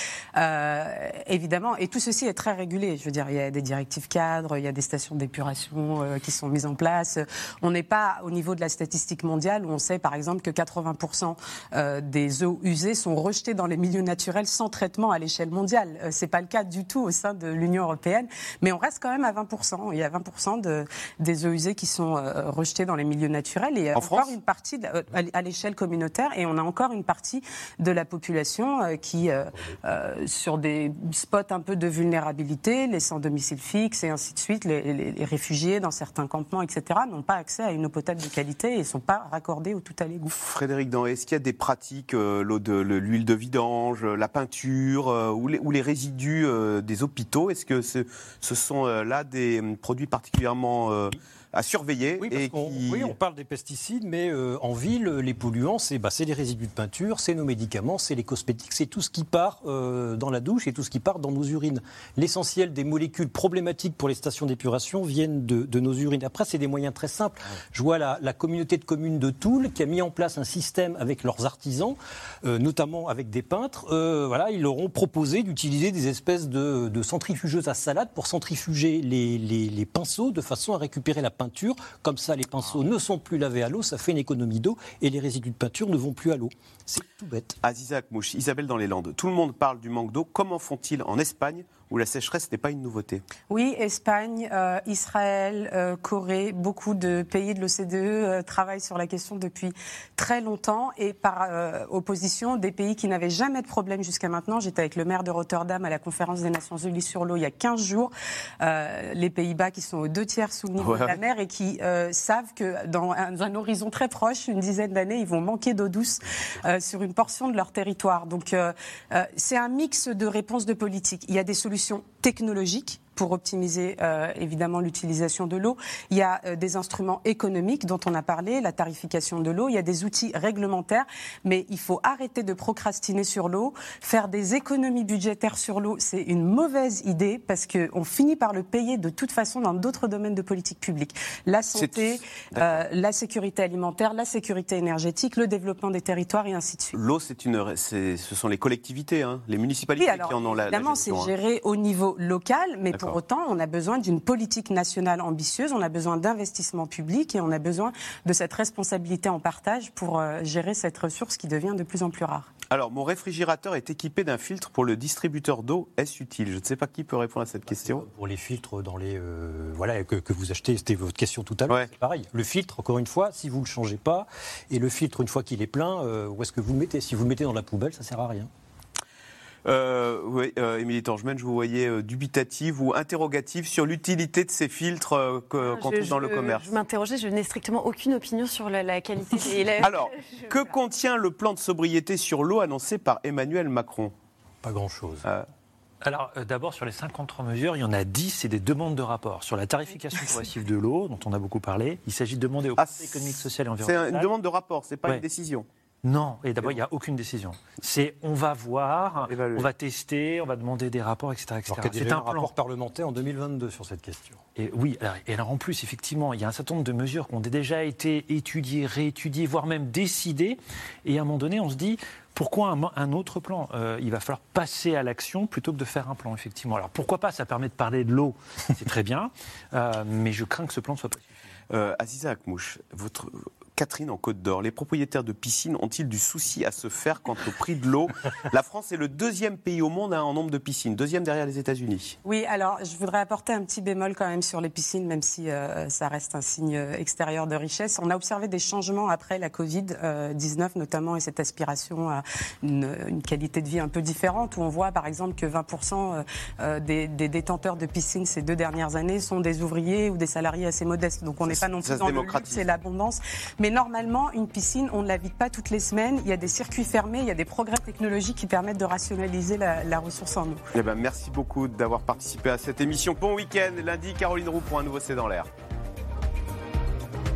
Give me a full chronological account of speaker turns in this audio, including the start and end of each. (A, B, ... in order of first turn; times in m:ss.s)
0:00.4-0:40.3 A
0:24.0-0:24.3 B
0:40.3-0:53.2 B
0:52.2-1:27.6 C
1:27.6-1:33.2 B
1:33.5-2:27.0 A
1:50.8-1:51.1 B
2:21.8-2:22.8 B
2:26.9-2:31.3 B
2:30.0-2:42.5 A
2:42.7-2:48.0 B
2:47.7-2:58.5 C
2:59.6-3:06.8 B
3:05.6-3:10.7 D
3:09.8-3:14.1 B
3:14.6-3:15.2 C
3:16.0-3:24.3 E
3:22.8-3:25.7 B
3:26.0-3:32.5 E
3:29.2-3:29.7 B
3:31.7-3:34.4 C
3:34.6-3:51.2 E
3:51.7-4:02.2 B
4:02.2-4:30.6 A
4:21.4-4:22.7 B
4:30.7-4:35.5 B